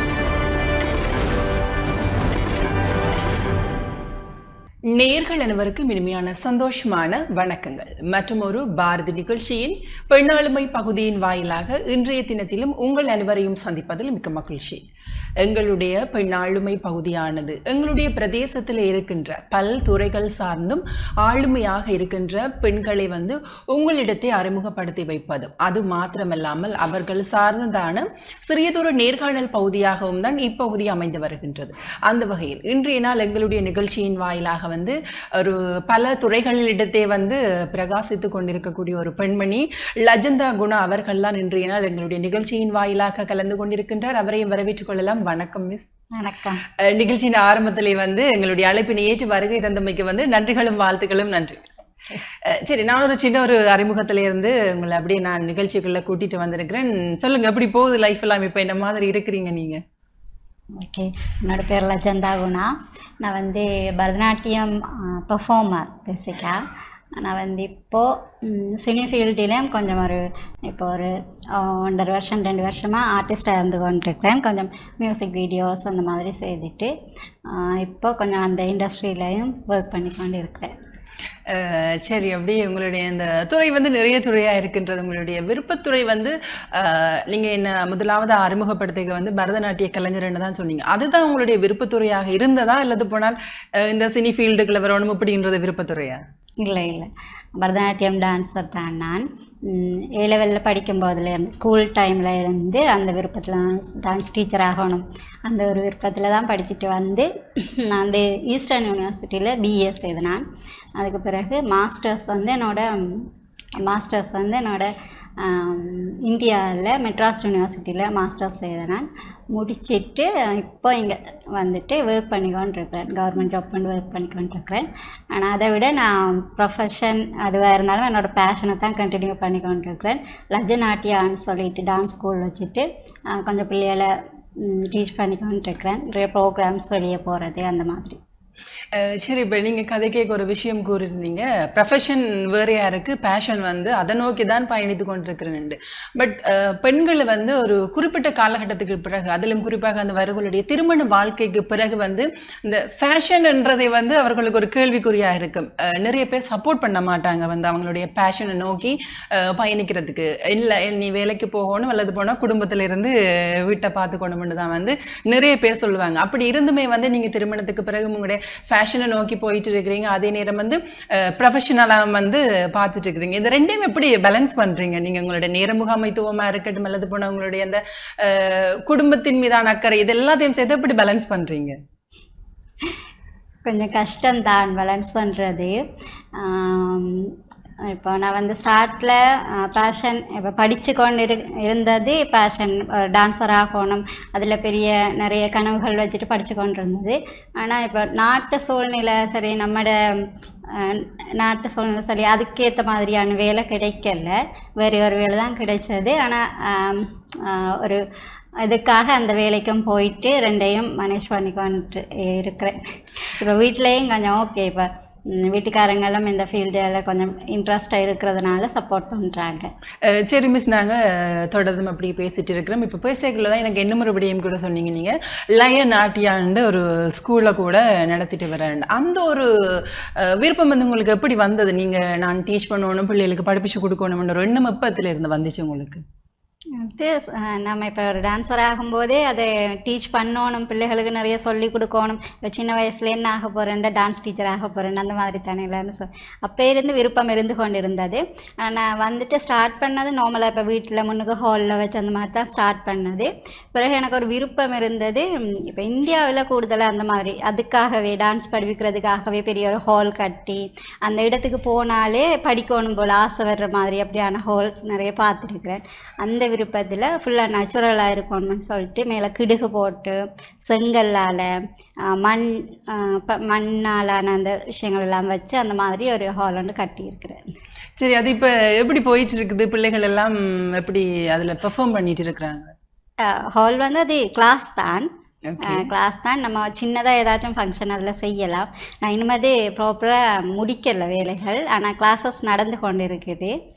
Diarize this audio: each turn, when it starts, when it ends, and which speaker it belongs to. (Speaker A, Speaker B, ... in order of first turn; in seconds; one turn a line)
Speaker A: 4.9-14.8
Speaker A: 15.4-45.8
Speaker B: 46.2-46.6
Speaker A: 46.8-51.7
Speaker A: 52.4-59.8
Speaker B: 60.8-66.6
Speaker B: 67.2-76.9
Speaker B: 77.5-80.7
Speaker A: 81.5-96.2
Speaker B: 96.6-110.4
Speaker B: 111.0-113.3
Speaker B: 113.8-138.2
Speaker A: 139.0-181.8
Speaker B: 183.7-185.8
Speaker B: 186.4-187.3
Speaker B: 187.9-208.0
Speaker B: 208.6-219.7
Speaker A: 220.1-236.0
Speaker B: 236.8-271.6
Speaker B: 272.1-277.5
Speaker A: 278.0-282.7
Speaker B: 283.2-285.1
Speaker A: 285.5-285.9
Speaker B: 285.6-293.6